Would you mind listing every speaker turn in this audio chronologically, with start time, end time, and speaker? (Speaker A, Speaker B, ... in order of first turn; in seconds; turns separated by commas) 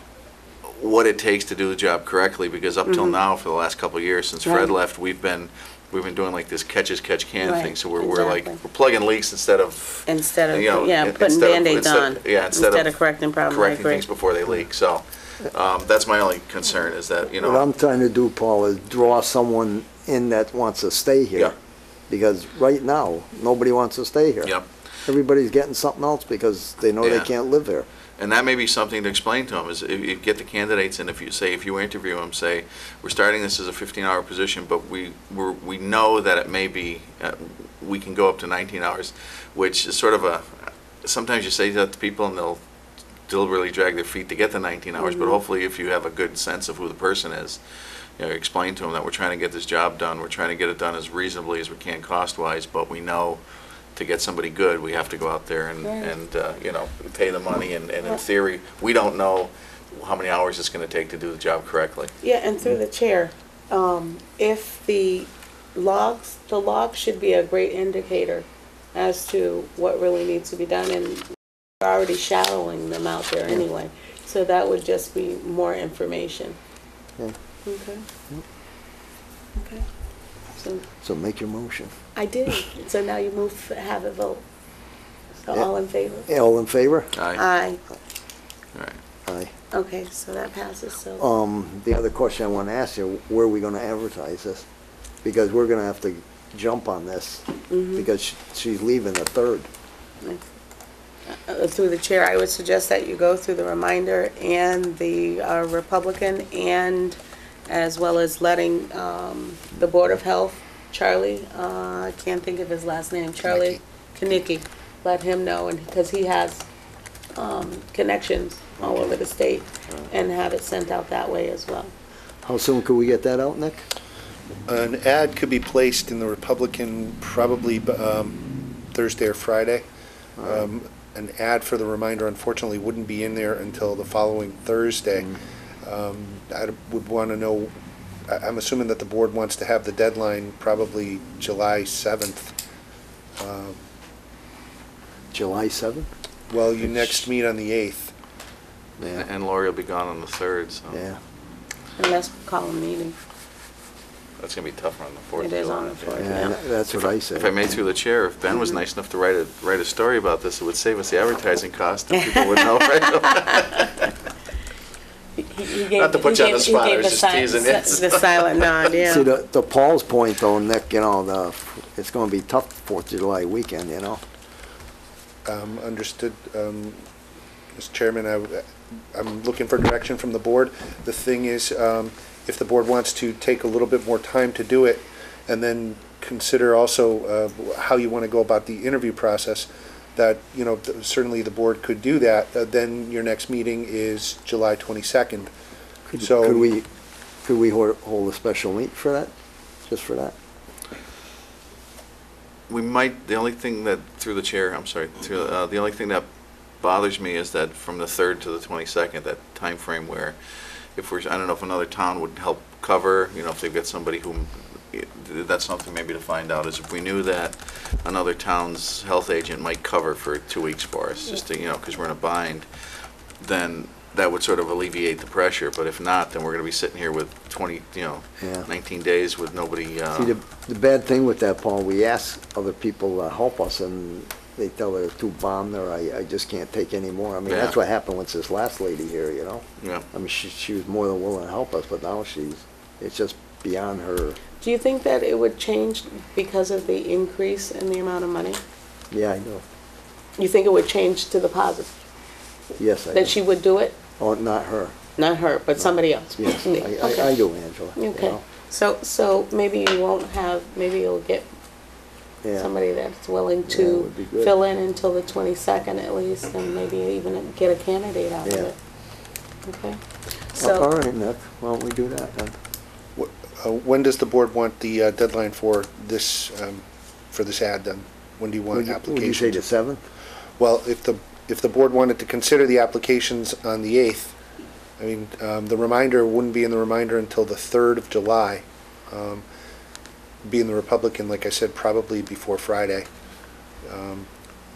Speaker A: 0.7-12.9, Speaker B: 2.9-3.2, Speaker B: 4.4-4.7, Speaker B: 7.4-8.6, Speaker B: 10.1-14.1, Speaker A: 13.5-17.7, Speaker C: 17.4-21.5, Speaker C: 22.1-24.5, Speaker C: 25.1-27.9, Speaker A: 27.0-27.3, Speaker A: 28.2-42.6, Speaker A: 43.3-47.6, Speaker B: 45.0-45.4, Speaker A: 48.2-53.4, Speaker A: 54.0-62.1, Speaker B: 55.8-56.1, Speaker B: 62.2-71.2, Speaker B: 71.8-76.6, Speaker B: 77.7-78.0, Speaker B: 79.5-79.8, Speaker B: 80.5-80.8, Speaker C: 81.0-81.9, Speaker B: 82.1-84.4, Speaker B: 85.4-86.3, Speaker C: 86.3-87.1, Speaker A: 87.1-87.4, Speaker B: 87.3-87.8, Speaker A: 88.7-89.0, Speaker C: 89.2-89.5, Speaker B: 89.7-91.2, Speaker C: 91.2-94.6, Speaker C: 95.2-99.7, Speaker B: 97.7-98.1, Speaker B: 101.3-116.6, Speaker B: 117.3-121.9, Speaker C: 118.8-119.1, Speaker C: 122.4-123.8, Speaker D: 124.7-128.3, Speaker D: 128.9-129.8, Speaker C: 130.4-130.7, Speaker D: 130.4-135.3, Speaker D: 135.8-137.7, Speaker D: 138.3-142.5, Speaker D: 143.4-143.8, Speaker C: 145.3-146.1, Speaker D: 146.5-148.1, Speaker C: 149.0-149.3, Speaker A: 149.1-151.0, Speaker C: 150.9-151.2, Speaker B: 152.0-153.2, Speaker A: 154.4-164.2, Speaker B: 155.4-156.6, Speaker C: 156.2-157.5, Speaker B: 158.5-158.8, Speaker B: 162.2-163.8, Speaker B: 165.4-169.3, Speaker A: 165.9-168.4, Speaker C: 169.0-174.2, Speaker D: 175.4-177.0, Speaker D: 177.7-178.6, Speaker D: 179.1-195.5, Speaker C: 196.1-196.8, Speaker D: 196.2-196.7, Speaker C: 197.4-199.3, Speaker C: 199.9-200.3, Speaker A: 202.7-206.2, Speaker A: 206.8-210.3, Speaker A: 210.9-222.7, Speaker A: 223.4-230.3, Speaker C: 228.4-228.7, Speaker C: 230.1-244.4, Speaker A: 237.4-237.7, Speaker A: 239.8-240.0, Speaker B: 244.6-248.6, Speaker C: 249.1-249.6, Speaker B: 250.4-251.9, Speaker C: 252.8-253.3, Speaker B: 253.1-253.9, Speaker C: 254.2-254.9, Speaker B: 255.2-257.4, Speaker C: 255.8-258.4, Speaker B: 257.9-261.5, Speaker C: 262.4-262.7, Speaker B: 262.6-268.8, Speaker C: 263.7-264.5, Speaker C: 268.4-268.7, Speaker B: 269.6-270.0, Speaker B: 270.5-270.9, Speaker C: 270.6-272.6, Speaker D: 273.1-279.6, Speaker C: 278.7-280.0, Speaker D: 280.6-284.3, Speaker D: 285.0-289.4, Speaker D: 290.4-293.1, Speaker D: 293.8-294.3